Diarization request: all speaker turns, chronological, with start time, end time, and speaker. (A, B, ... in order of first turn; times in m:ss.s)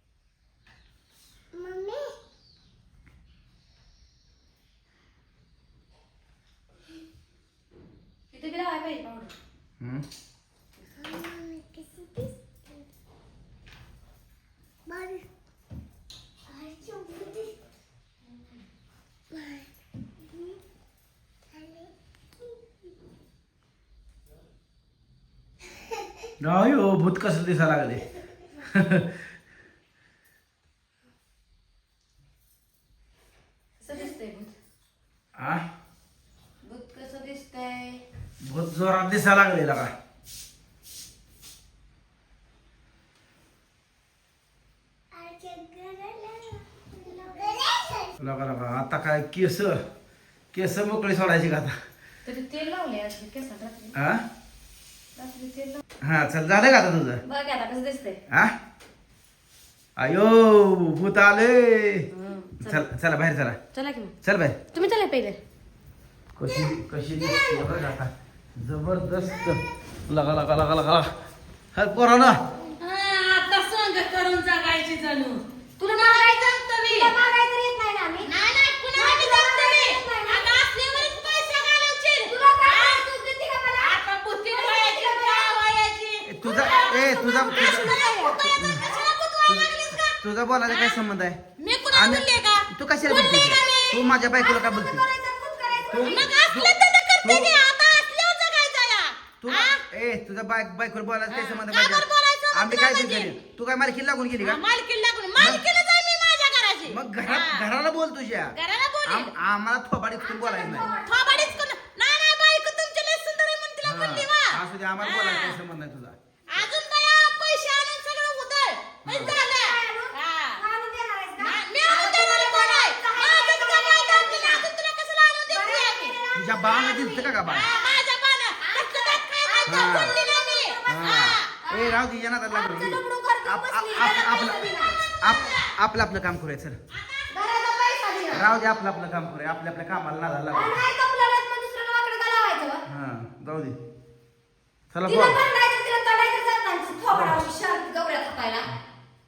0:01.5-0:02.2 A
0:08.3-0:09.3 B
0:09.8-0:10.0 C
0:11.0-0:12.8 A
0:14.9-0:15.2 A
0:16.5-0:17.5 A
0:19.3-0:19.7 A
0:21.5-0:21.9 A
0:26.4-0:29.1 C
0:33.8-0:34.6 B
0:35.4-0:35.6 C
0:36.6-0:38.0 B
0:38.4-0:39.9 C
0:45.1-0:48.1 A
0:48.2-0:49.8 C
0:50.5-0:51.7 C
0:52.2-0:54.0 B
0:53.9-0:54.2 C
0:55.2-0:55.8 B
0:56.0-0:57.2 C
0:57.2-0:58.2 B
1:00.0-1:02.1 C
1:02.1-1:02.8 B
1:02.6-1:03.6 C
1:03.7-1:04.1 B
1:04.2-1:04.6 C
1:04.7-1:05.4 B
1:06.4-1:11.1 C
1:11.7-1:12.4 C
1:12.8-1:18.4 B
1:15.8-1:17.2 D
1:18.2-1:23.0 D
1:18.9-1:20.5 B
1:22.2-1:25.6 B
1:23.8-1:30.0 D
1:26.2-1:28.8 C
1:26.4-1:29.9 B
1:29.5-1:35.1 C
1:30.6-1:31.0 D
1:31.6-1:33.9 D
1:33.2-1:36.3 B
1:35.9-1:37.6 C
1:35.9-1:39.8 D
1:39.4-1:44.6 C
1:41.3-1:43.4 D
1:44.4-1:47.7 D
1:45.4-1:45.6 C
1:46.9-1:50.9 C
1:48.5-1:49.3 D
1:50.2-1:51.7 B
1:50.4-1:55.6 D
1:53.8-1:56.2 C
1:56.5-2:00.6 D
1:59.0-1:59.4 C
1:59.1-2:04.7 B
2:01.4-2:11.5 D
2:05.5-2:06.2 B
2:06.3-2:07.7 C
2:07.5-2:07.9 B
2:08.6-2:10.0 B
2:09.6-2:10.1 C
2:10.8-2:14.7 C
2:11.6-2:15.6 B
2:15.2-2:16.8 C
2:17.0-2:18.2 D
2:17.3-2:18.5 B
2:18.3-2:20.8 C
2:20.5-2:22.8 B
2:22.9-2:23.8 C
2:24.9-2:25.4 C
2:25.0-2:28.7 B
2:27.1-2:27.4 C